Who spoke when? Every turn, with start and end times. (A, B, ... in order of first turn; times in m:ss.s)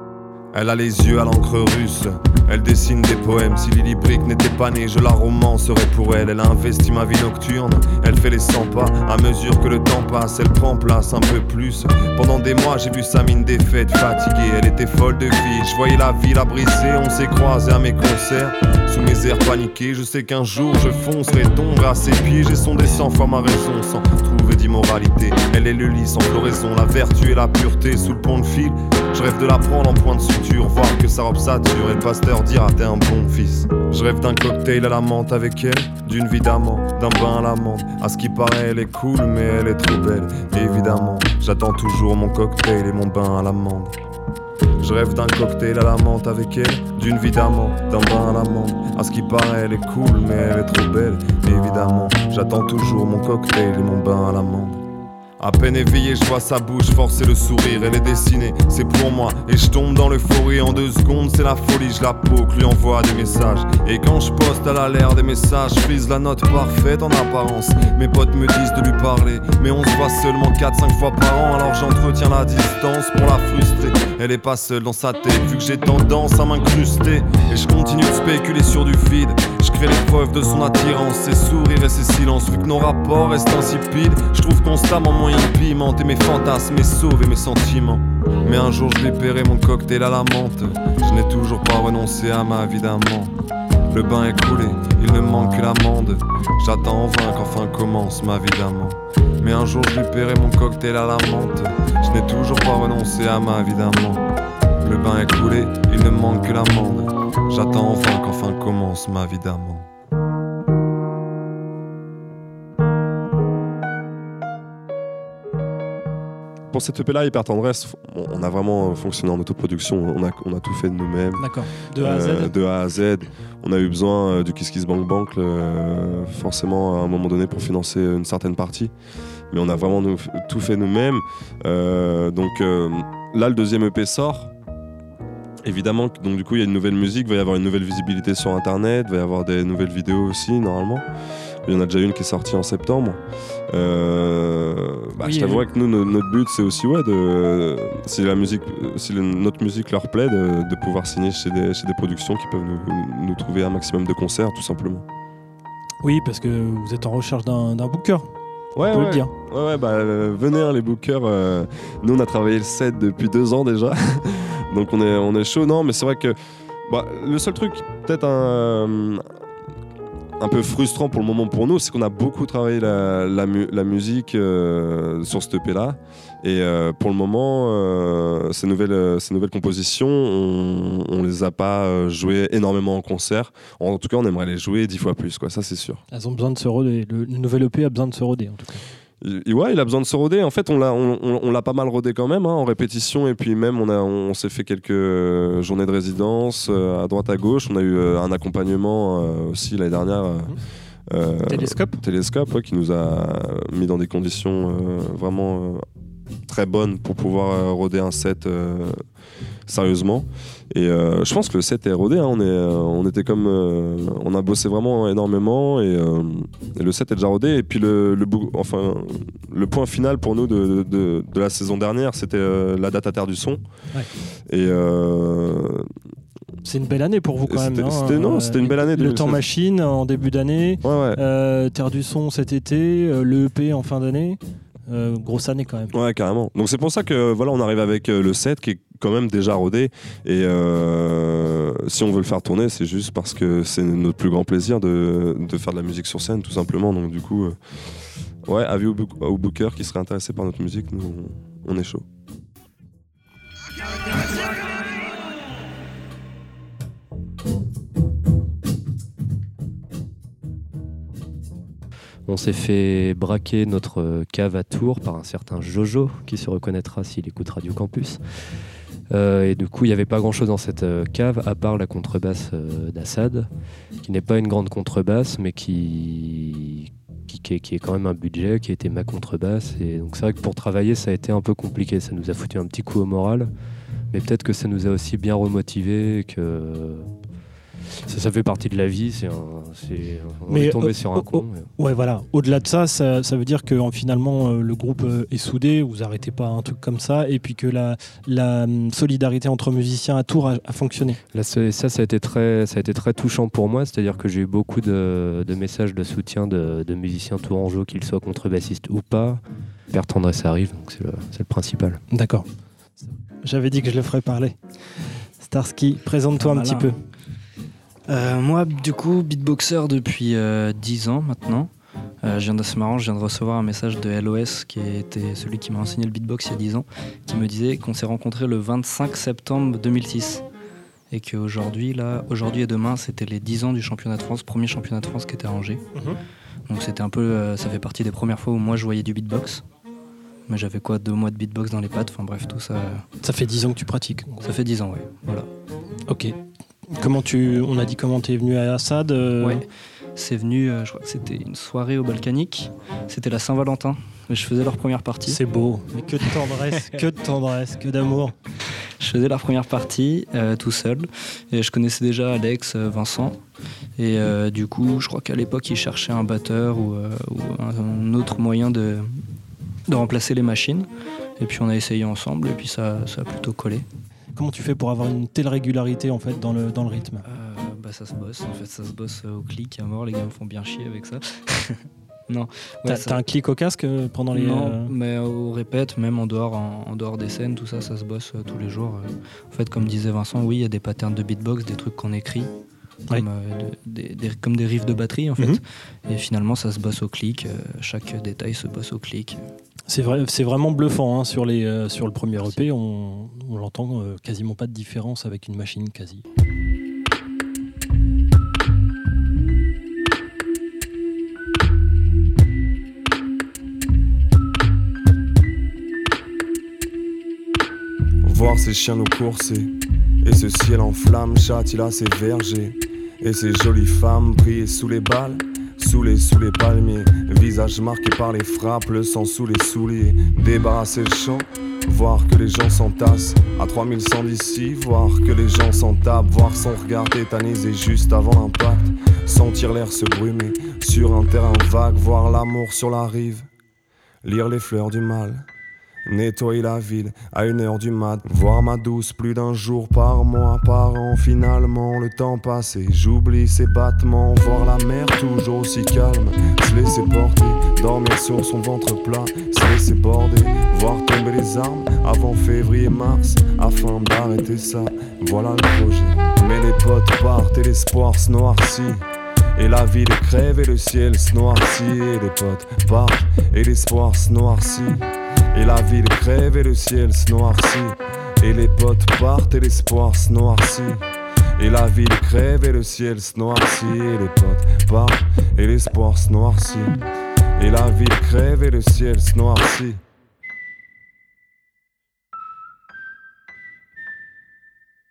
0:00.5-0:43.9 A
0:44.8-0:54.8 A
0:55.4-1:33.3 A
1:33.9-1:44.3 A
1:44.8-1:49.9 A
1:56.7-2:08.9 B
2:01.4-2:02.5 C
2:09.5-2:14.5 B
2:15.6-2:21.0 B
2:21.6-2:35.0 B
2:25.2-2:25.7 C
2:36.0-2:38.3 C
2:38.8-2:49.2 B
2:38.9-2:39.3 C
2:50.4-3:06.0 B
3:06.1-3:08.8 C
3:09.2-3:20.6 B
3:21.1-3:25.8 B
3:21.5-3:22.0 C
3:26.5-3:29.0 B
3:29.7-3:43.6 B
3:44.5-3:45.9 B
3:46.6-3:55.9 C
3:47.5-3:49.4 B
3:50.8-3:51.2 B
3:55.9-4:07.6 B
4:08.4-4:12.1 B
4:22.3-4:28.2 D
4:29.1-4:33.5 D
4:34.0-4:43.5 D
4:44.1-4:47.1 D
4:48.1-4:51.7 D
4:50.5-5:01.2 C
5:01.3-5:12.0 D
5:12.1-5:12.4 C
5:13.4-5:14.6 C
5:15.4-5:17.0 C
5:16.4-5:16.9 E
5:18.1-5:21.7 E
5:22.2-5:30.4 E
5:31.1-5:35.8 E
5:36.7-5:39.6 E
5:40.5-5:43.0 E
5:43.2-5:44.5 C
5:44.4-5:45.5 E
5:46.1-5:46.4 C
5:46.9-5:49.6 C
5:49.4-5:55.4 E
5:55.3-5:58.4 C
5:59.0-6:03.4 E
6:04.0-6:09.2 E
6:09.9-6:10.9 E
6:11.4-6:13.9 E
6:14.4-6:17.2 C
6:17.2-6:23.2 E
6:22.9-6:24.9 C
6:24.3-6:32.5 E
6:33.1-6:39.4 E
6:39.9-6:46.3 C
6:58.2-6:59.7 A
7:00.2-7:23.5 A
7:24.2-7:25.5 A
7:26.1-8:07.0 A
8:07.6-8:10.0 A